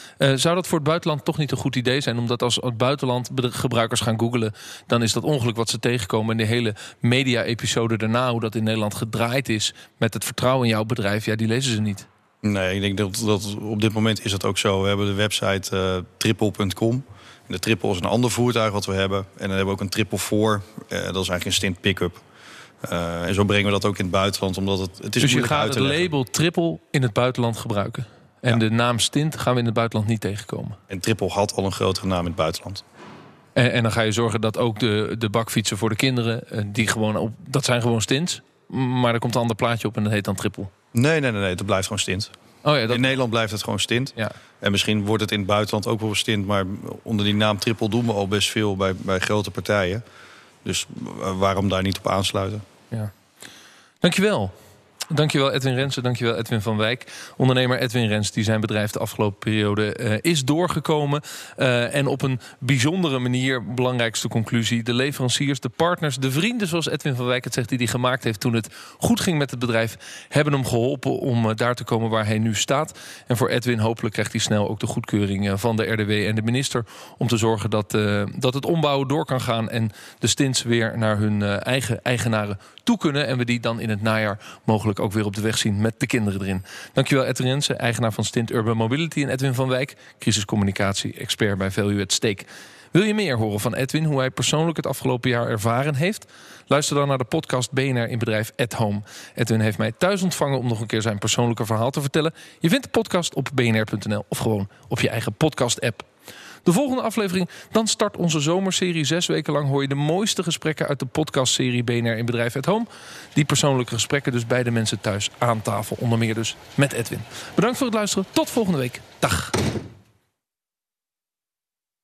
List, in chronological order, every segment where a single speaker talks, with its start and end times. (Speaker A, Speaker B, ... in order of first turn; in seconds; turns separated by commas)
Speaker A: 0.2-12.1, Speaker B: 12.4-22.2, Speaker B: 22.8-26.1, Speaker A: 25.2-30.8, Speaker B: 30.9-32.8, Speaker A: 33.5-40.7, Speaker B: 40.9-42.3, Speaker A: 42.6-43.1, Speaker B: 42.9-50.0, Speaker B: 50.6-52.6, Speaker A: 54.0-54.5, Speaker A: 55.1-106.1, Speaker A: 106.6-119.5